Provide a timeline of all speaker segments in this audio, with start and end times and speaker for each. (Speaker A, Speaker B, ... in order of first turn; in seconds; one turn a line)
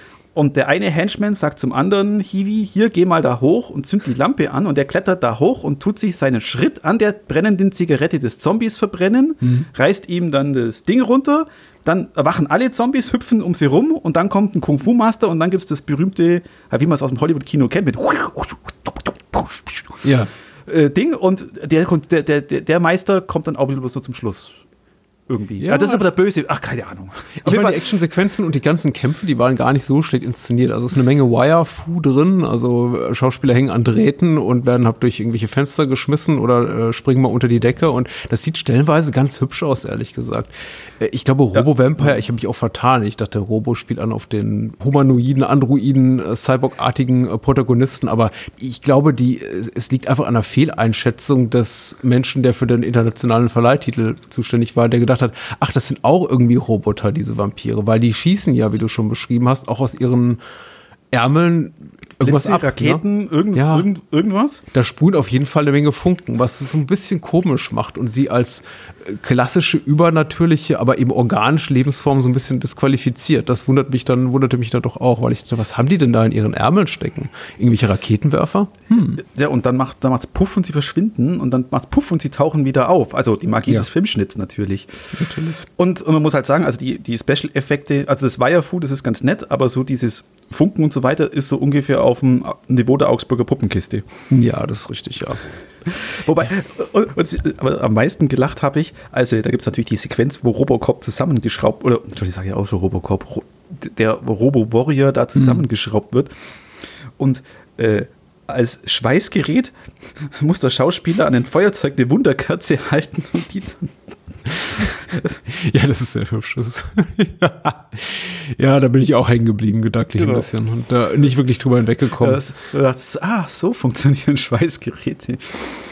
Speaker A: 0.3-20.1
Speaker B: 20.0-20.3
Speaker A: 20.7-24.6
Speaker A: 25.3-27.9
Speaker B: 25.6-26.1
Speaker B: 27.4-60.4
Speaker A: 41.5-42.1
Speaker B: 61.1-63.0
Speaker A: 62.2-64.6
Speaker B: 63.5-63.9
Speaker B: 64.7-79.2
Speaker A: 79.1-94.0
Speaker B: 85.2-85.6
Speaker B: 94.3-95.4
Speaker A: 95.9-106.3
Speaker B: 105.4-105.7
Speaker A: 107.2-114.0
Speaker A: 114.5-115.4
Speaker B: 115.5-122.4
Speaker A: 120.2-120.5
Speaker A: 122.2-125.8